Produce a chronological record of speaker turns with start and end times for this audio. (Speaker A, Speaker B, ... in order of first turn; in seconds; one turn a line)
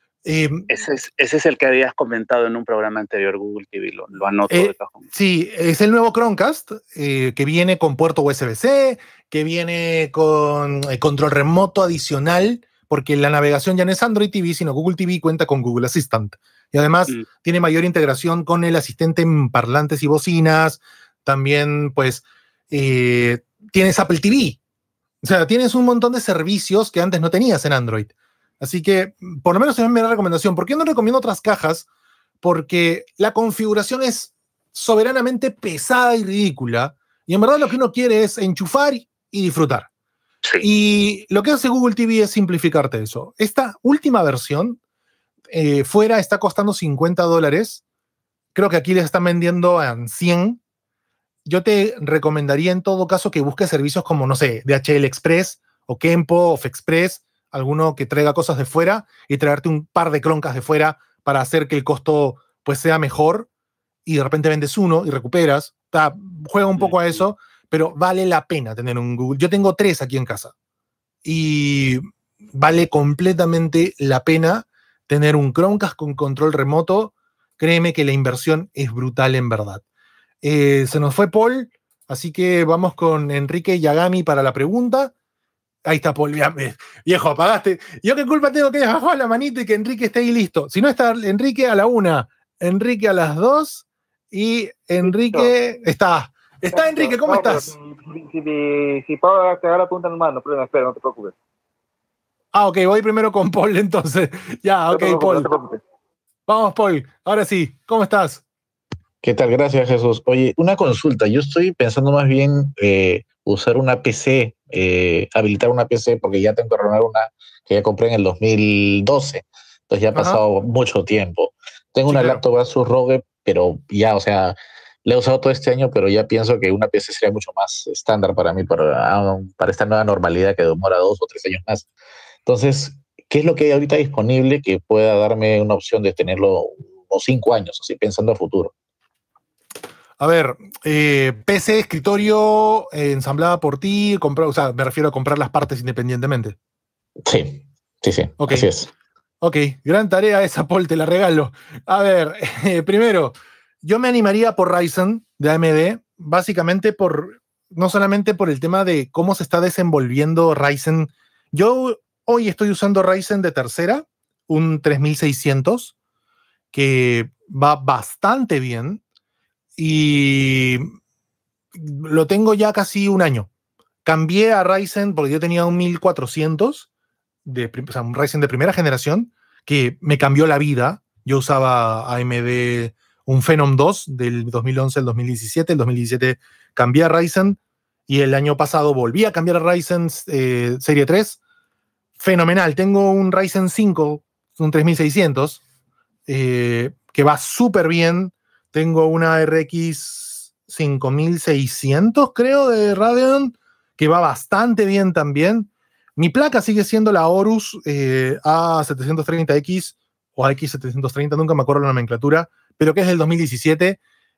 Speaker A: 0.2-0.7
Speaker B: 0.7-5.0
Speaker A: 4.5-24.6
Speaker A: 25.2-31.9
Speaker A: 32.4-39.9
Speaker A: 40.6-44.8
Speaker A: 45.5-47.8
Speaker A: 48.5-50.6
Speaker A: 51.5-63.5
Speaker A: 64.1-70.5
Speaker A: 71.2-79.8
Speaker A: 80.4-85.1
Speaker A: 85.9-97.7
Speaker C: 95.0-95.5
Speaker C: 96.7-101.3
Speaker A: 102.5-105.5
Speaker C: 104.9-105.8
Speaker A: 106.5-108.4
Speaker D: 109.2-131.9
Speaker A: 120.1-120.4
Speaker A: 122.1-122.4
Speaker D: 132.5-138.7
Speaker A: 140.2-146.6
Speaker D: 147.2-148.9
Speaker A: 148.4-148.7
Speaker A: 149.4-165.9
Speaker A: 166.7-169.0
Speaker A: 169.8-170.9
Speaker A: 171.8-173.5
Speaker A: 174.1-176.9
Speaker A: 177.5-191.4
Speaker A: 192.2-195.6
Speaker A: 196.3-214.0